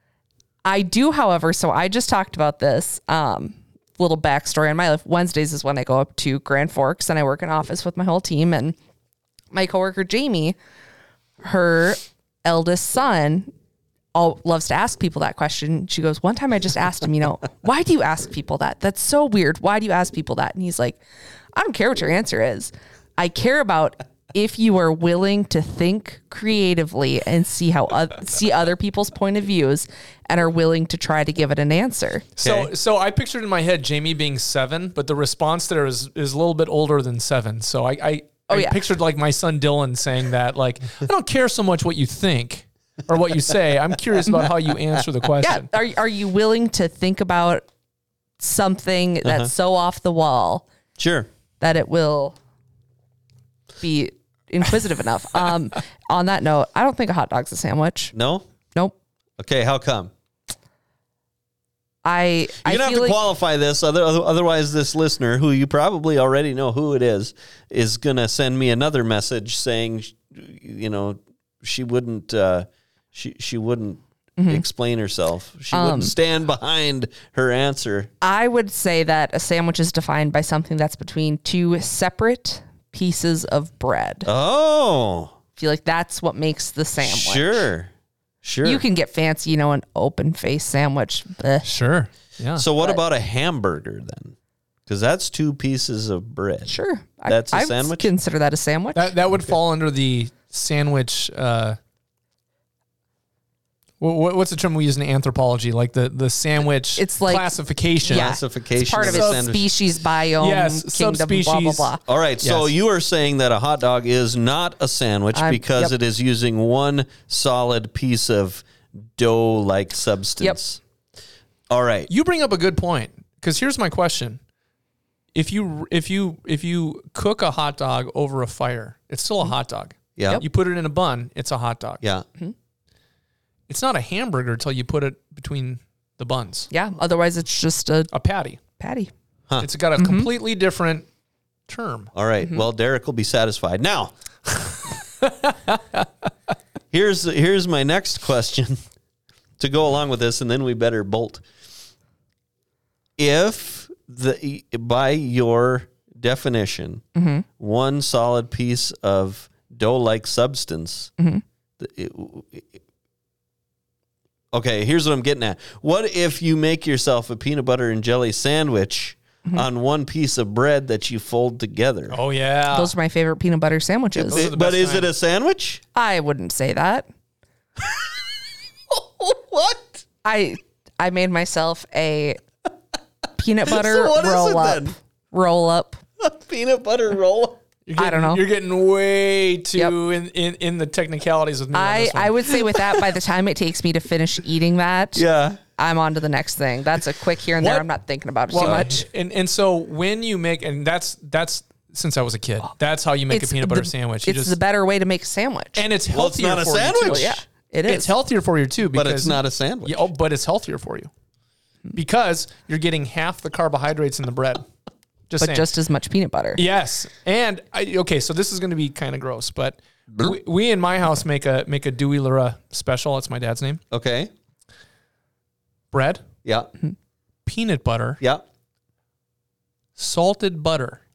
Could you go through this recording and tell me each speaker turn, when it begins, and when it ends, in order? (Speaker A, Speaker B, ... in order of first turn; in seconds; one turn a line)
Speaker A: 0.6-8.8
Speaker A: 9.5-10.6
Speaker A: 11.4-13.5
Speaker A: 14.1-21.0
Speaker A: 21.5-32.3
Speaker B: 32.4-45.7
Speaker C: 32.4-32.7
Speaker A: 38.5-38.9
Speaker A: 45.4-47.7
Speaker A: 48.4-50.6
Speaker C: 49.2-49.5
Speaker C: 51.0-51.3
Speaker A: 51.6-52.4
Speaker A: 53.8-58.1
Speaker C: 58.1-58.5
Speaker C: 59.4-60.1
Speaker A: 62.0-63.2
Speaker C: 62.6-78.1
Speaker A: 74.4-74.6
Speaker A: 75.7-76.1
Speaker A: 78.2-84.3
Speaker C: 84.2-85.3
Speaker A: 85.6-87.7
Speaker C: 87.0-87.9
Speaker C: 88.4-88.8
Speaker A: 88.6-91.7
Speaker B: 91.6-92.7
Speaker C: 92.6-94.3
Speaker C: 94.9-96.7
Speaker A: 96.7-99.1
Speaker C: 97.3-98.1
Speaker B: 98.9-101.8
Speaker B: 104.0-108.3
Speaker A: 107.0-112.0
Speaker C: 108.1-109.7
Speaker B: 109.0-109.5
Speaker B: 110.4-112.7
Speaker C: 112.1-120.8
Speaker A: 115.3-115.9
Speaker C: 121.7-122.1
Speaker B: 122.1-124.4
Speaker B: 125.3-132.0
Speaker C: 130.2-130.4
Speaker B: 133.7-136.7
Speaker A: 136.7-138.1
Speaker B: 138.1-138.6
Speaker A: 138.8-139.1
Speaker B: 139.6-141.1
Speaker A: 140.0-140.3
Speaker B: 141.7-142.1
Speaker C: 142.1-144.1
Speaker B: 145.2-146.0
Speaker C: 146.9-148.8
Speaker C: 149.6-151.4
Speaker C: 153.2-157.0
Speaker A: 157.2-157.4
Speaker C: 157.6-161.1
Speaker C: 161.8-162.8
Speaker C: 164.5-172.2
Speaker B: 172.1-172.9
Speaker A: 172.7-174.4
Speaker B: 174.2-175.1
Speaker C: 174.2-175.8
Speaker A: 175.9-177.1
Speaker C: 177.8-180.0
Speaker A: 180.2-182.4
Speaker A: 183.3-186.0
Speaker C: 183.7-184.9
Speaker C: 186.2-187.6
Speaker B: 187.9-193.0
Speaker A: 188.0-188.4
Speaker A: 191.7-195.2
Speaker C: 195.1-195.6
Speaker A: 195.8-199.0
Speaker B: 197.6-197.8
Speaker B: 198.5-204.6
Speaker A: 203.3-205.8
Speaker B: 205.8-207.3
Speaker C: 206.1-207.4
Speaker A: 207.1-208.1
Speaker B: 207.8-211.1
Speaker C: 208.9-210.0
Speaker B: 211.9-214.7
Speaker B: 215.3-215.7
Speaker A: 215.4-216.6
Speaker B: 216.6-223.8
Speaker C: 223.9-224.3
Speaker B: 225.9-226.2
Speaker B: 227.4-228.2
Speaker B: 229.9-231.0